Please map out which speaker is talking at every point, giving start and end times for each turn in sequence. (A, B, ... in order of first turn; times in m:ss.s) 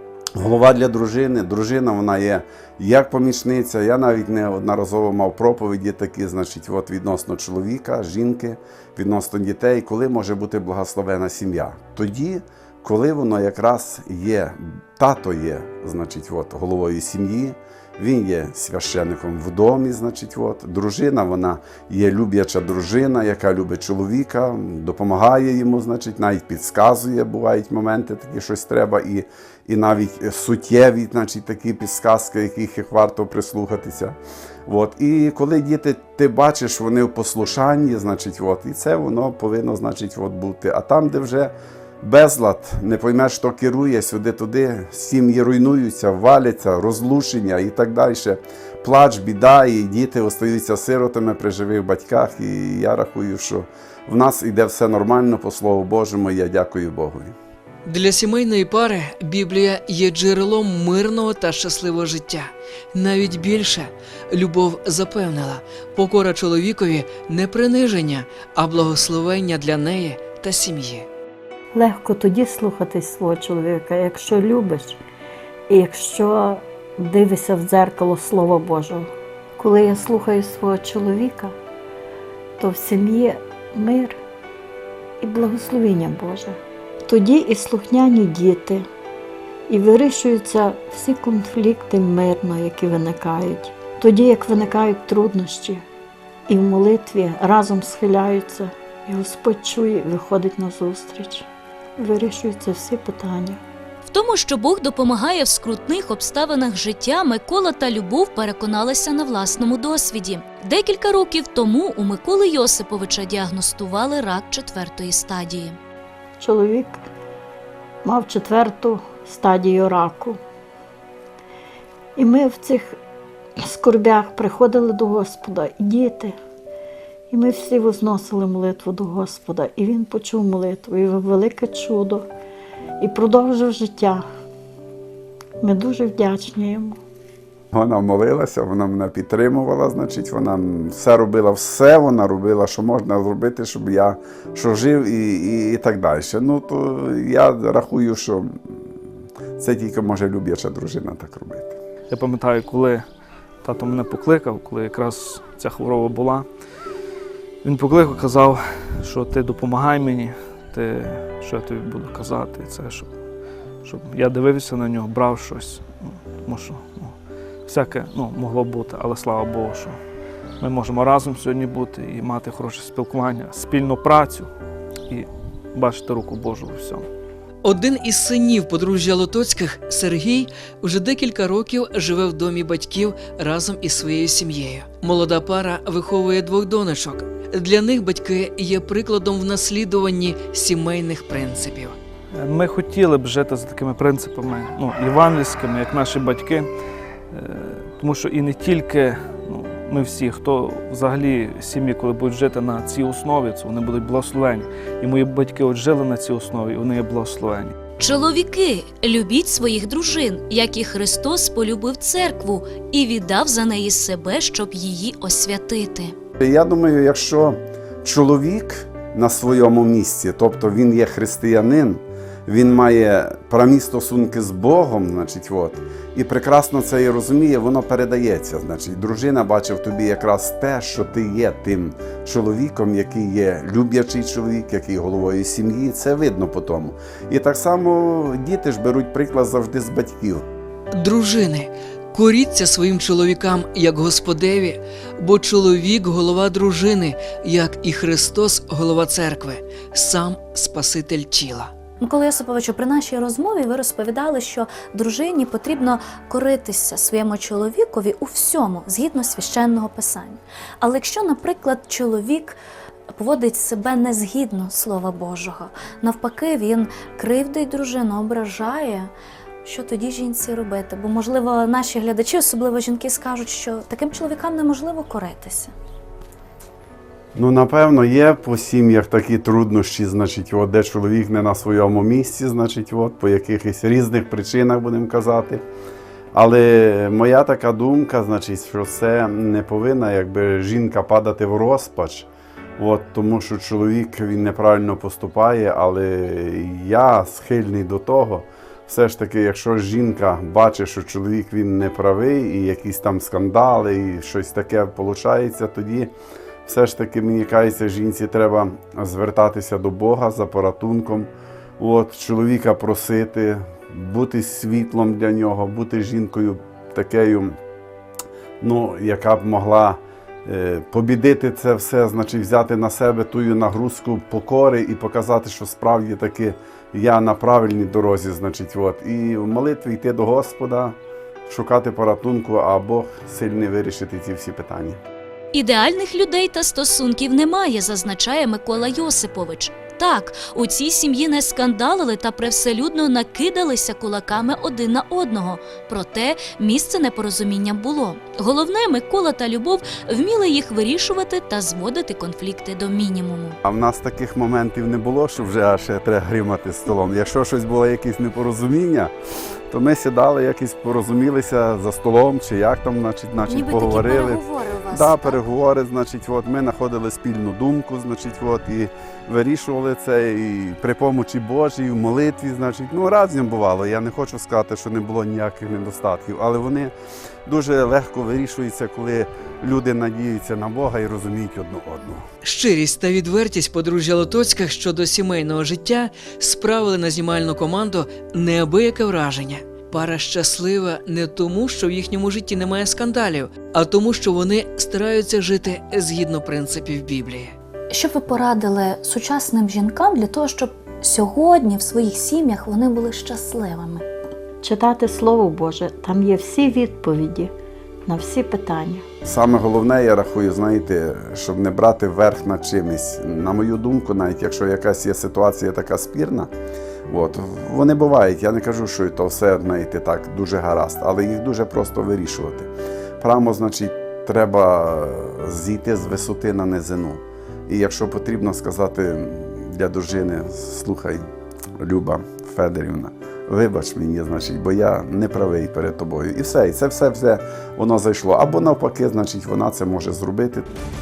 0:00.4-0:34.2 A
0:34.7-0:57.4 A
0:57.9-1:11.1 B
1:11.7-1:15.0 C
1:15.7-1:21.6 C
1:22.6-1:24.2 C
1:25.2-1:28.9 C
1:29.7-1:35.8 C
1:36.5-1:41.5 C
1:42.0-1:43.6 C
1:44.0-1:55.8 D
1:56.4-1:57.1 C
1:58.0-2:00.4 C
2:02.2-2:03.0 C
2:03.6-2:06.4 C
2:07.3-2:12.3 C
2:13.0-2:14.2 C
2:15.6-2:17.0 C
2:17.7-2:28.6 A
2:29.6-2:31.8 A
2:32.1-2:33.1 E
2:33.6-2:36.5 E
2:37.6-2:43.1 E
2:43.8-2:50.0 E
2:50.6-2:54.5 E
2:55.1-2:57.1 E
2:57.6-3:12.0 B
3:12.3-3:16.7 E
3:17.3-3:27.8 E
3:28.0-3:36.2 D
3:36.4-4:00.4 A
4:00.9-4:11.7 B
4:12.0-4:22.6 F
4:23.1-4:29.1 F
4:29.6-4:35.7 F
4:37.4-4:45.6 A
4:46.3-5:06.1 A
5:06.7-5:17.6 A
5:18.6-5:35.0 A
5:35.5-5:53.6 D
5:53.6-5:59.1 A
5:59.7-6:16.9 A
6:03.5-6:05.4 D
6:17.5-6:22.3 A
6:22.4-6:37.6 B
6:37.9-6:44.0 F
6:44.6-6:47.5 C
6:48.1-6:49.0 C
6:49.2-6:56.5 A
6:57.1-7:11.3 A
7:11.8-7:20.7 A